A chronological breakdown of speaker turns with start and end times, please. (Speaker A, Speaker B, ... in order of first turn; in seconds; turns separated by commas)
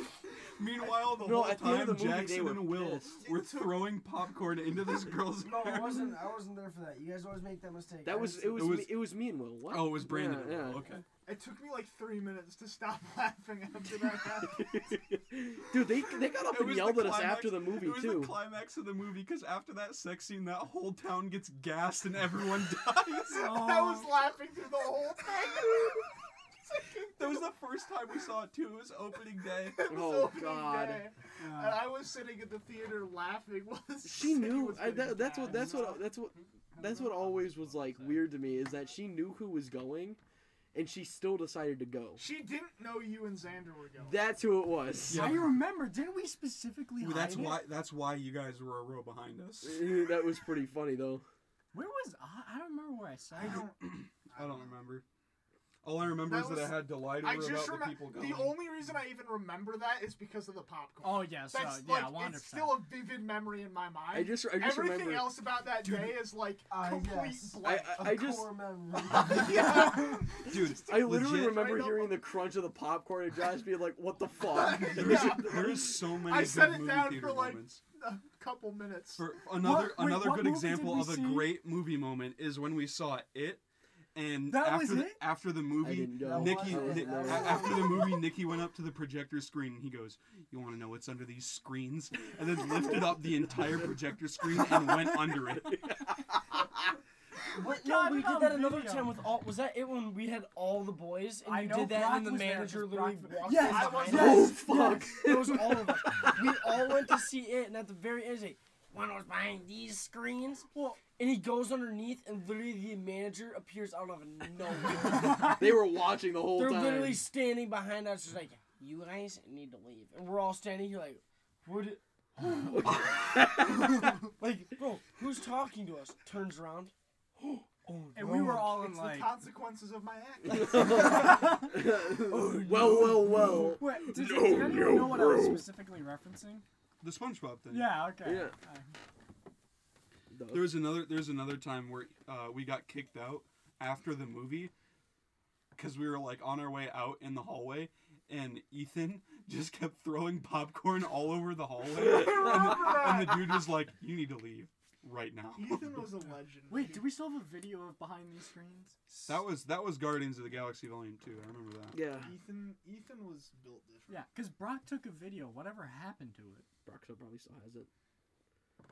Speaker A: 0.5-6.2, Speaker B: 1.0-3.1, Speaker C: 3.2-3.9, Speaker D: 5.4-8.8, Speaker B: 8.0-10.8, Speaker A: 8.5-9.0, Speaker A: 9.7-11.0, Speaker C: 11.2-14.7, Speaker B: 14.4-18.4, Speaker A: 16.4-23.8, Speaker C: 23.3-26.1, Speaker E: 23.4-24.1, Speaker C: 26.6-27.5, Speaker A: 27.1-29.9, Speaker C: 29.5-36.0, Speaker B: 29.9-31.1, Speaker E: 31.4-31.8, Speaker B: 34.0-40.2, Speaker E: 35.4-36.0, Speaker B: 40.7-42.2, Speaker C: 42.2-44.2, Speaker B: 44.0-45.4, Speaker A: 45.1-45.6, Speaker E: 45.1-47.7, Speaker A: 47.0-50.0, Speaker B: 49.6-51.2, Speaker E: 51.7-53.6, Speaker C: 53.3-54.8, Speaker A: 53.4-55.0, Speaker A: 55.8-58.6, Speaker C: 56.2-68.2, Speaker E: 61.0-62.9, Speaker B: 64.1-65.4, Speaker D: 66.7-69.8, Speaker B: 67.6-68.5, Speaker C: 69.1-72.2, Speaker B: 69.1-75.9, Speaker A: 70.4-71.6, Speaker C: 74.5-79.3, Speaker A: 74.8-77.8, Speaker A: 79.2-83.6, Speaker E: 79.5-81.6, Speaker A: 84.1-96.0, Speaker E: 84.5-85.2, Speaker B: 85.8-88.0, Speaker D: 86.2-88.2, Speaker B: 94.5-96.6, Speaker D: 97.5-115.7, Speaker E: 97.6-99.1, Speaker E: 101.4-104.9, Speaker C: 103.6-104.5, Speaker B: 104.0-106.6, Speaker E: 110.7-111.0, Speaker B: 114.7-117.2, Speaker D: 116.4-128.6, Speaker B: 122.8-124.1, Speaker A: 122.8-123.2, Speaker E: 128.1-129.3, Speaker C: 128.4-131.3, Speaker B: 130.4-135.7, Speaker D: 131.1-131.4, Speaker D: 132.3-133.6, Speaker E: 132.8-136.6, Speaker A: 137.0-138.1, Speaker E: 137.7-138.9, Speaker B: 138.2-138.5, Speaker B: 140.3-140.9, Speaker A: 140.5-144.7, Speaker A: 145.8-155.9, Speaker C: 152.0-153.6, Speaker C: 155.5-157.2, Speaker E: 156.7-159.3, Speaker A: 159.2-162.1, Speaker B: 161.9-162.3, Speaker C: 162.2-164.2, Speaker E: 164.1-166.7, Speaker B: 166.8-167.9